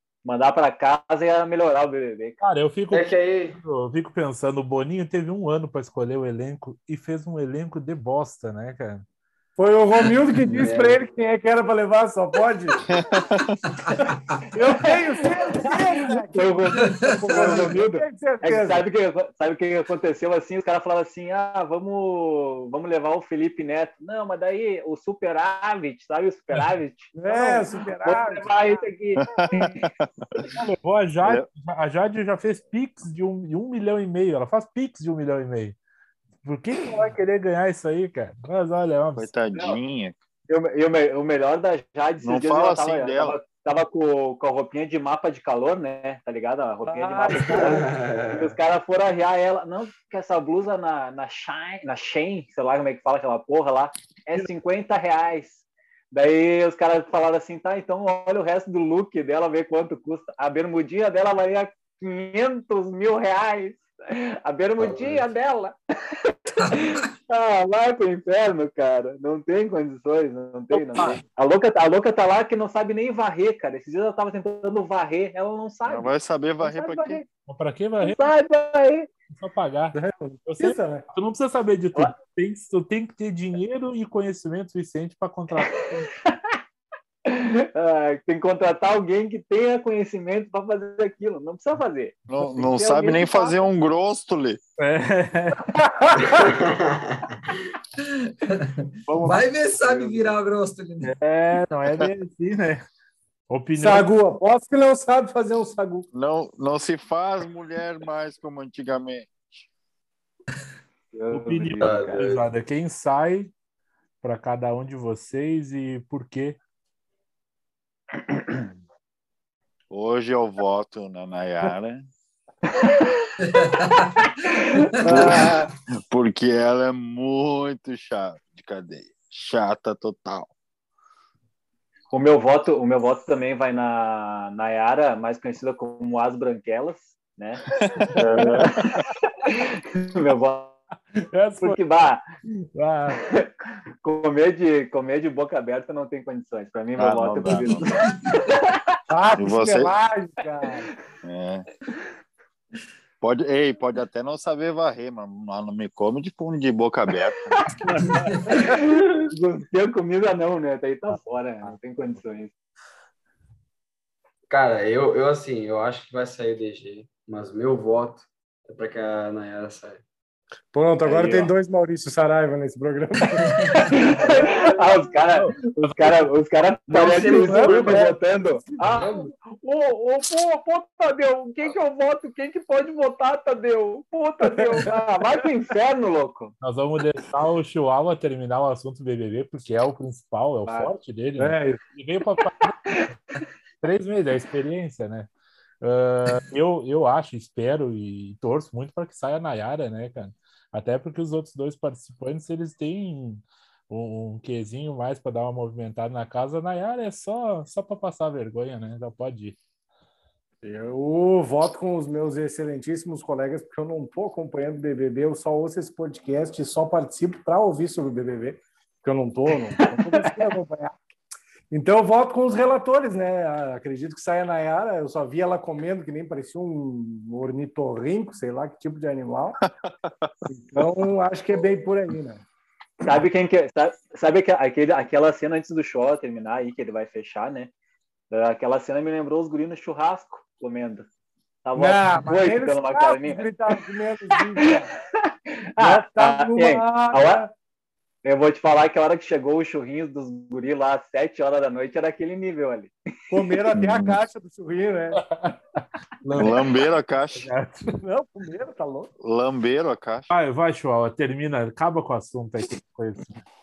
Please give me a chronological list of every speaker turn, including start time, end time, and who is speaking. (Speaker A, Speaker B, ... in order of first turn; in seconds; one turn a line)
Speaker A: 0.2-2.4
Speaker B: 2.4-9.1
Speaker C: 2.9-3.6
Speaker D: 9.6-12.8
Speaker C: 10.5-11.0
Speaker E: 12.8-13.6
Speaker F: 13.8-14.4
Speaker D: 14.1-18.9
Speaker A: 16.3-29.8
Speaker F: 16.8-17.6
Speaker D: 27.2-28.5
Speaker E: 29.2-30.1
Speaker B: 30.5-35.8
Speaker B: 36.4-39.3
Speaker E: 39.2-40.1
Speaker A: 40.5-77.2
Speaker E: 42.2-43.4
Speaker D: 46.9-47.9
Speaker C: 47.5-48.5
Speaker C: 64.8-65.3
Speaker E: 75.9-77.2
Speaker B: 77.5-78.3
Speaker A: 78.0-79.1
Speaker B: 79.3-86.1
Speaker D: 79.9-81.1
Speaker A: 87.3-93.6
Speaker E: 92.3-94.6
Speaker B: 94.8-95.7
Speaker D: 95.8-96.3
Speaker C: 96.2-97.4
Speaker F: 98.2-101.2
Speaker B: 99.1-100.4
Speaker B: 101.0-102.8
Speaker B: 103.5-104.1
Speaker D: 103.8-106.1
Speaker E: 106.1-109.7
Speaker A: 111.1-112.1
Speaker B: 111.3-113.5
Speaker C: 111.8-112.4
Speaker B: 114.2-116.6
Speaker E: 119.9-122.1
Speaker A: 122.8-125.4
Speaker F: 123.5-123.9
Speaker D: 125.0-125.7
Speaker E: 125.1-125.4
Speaker E: 126.1-130.5
Speaker A: 132.1-137.6
Speaker E: 137.7-139.0
Speaker B: 138.1-138.7
Speaker A: 138.3-138.7
Speaker A: 139.4-140.8
Speaker B: 141.3-141.8
Speaker A: 141.6-142.2
Speaker B: 142.7-143.2
Speaker A: 143.2-143.5
Speaker A: 144.0-148.8
Speaker E: 147.0-148.0
Speaker D: 149.1-150.9
Speaker E: 149.4-149.9
Speaker E: 151.2-151.7
Speaker E: 153.2-157.6
Speaker A: 157.6-162.5
Speaker C: 164.5-170.0
Speaker D: 170.7-173.5
Speaker A: 171.1-171.5
Speaker F: 173.4-173.9
Speaker A: 173.8-186.5
Speaker C: 174.2-175.1
Speaker C: 176.9-178.1
Speaker D: 177.0-179.3
Speaker C: 179.0-179.3
Speaker B: 186.6-192.8
Speaker A: 190.7-190.9
Speaker D: 191.4-191.8
Speaker B: 193.8-195.3
Speaker B: 195.8-209.6
Speaker D: 210.6-221.0
Speaker D: 221.7-229.6
Speaker E: 229.6-230.3
Speaker D: 230.5-232.4
Speaker A: 233.0-237.7
Speaker A: 238.3-241.1
Speaker A: 241.7-243.5
Speaker D: 241.8-244.9
Speaker A: 245.3-247.4
Speaker D: 245.8-247.5
Speaker A: 248.2-252.9
Speaker D: 253.3-255.3
Speaker E: 253.7-254.2
Speaker B: 256.2-256.7
Speaker E: 256.4-257.5
Speaker B: 257.3-257.9
Speaker D: 258.0-259.1
Speaker E: 259.2-260.3
Speaker B: 260.3-263.4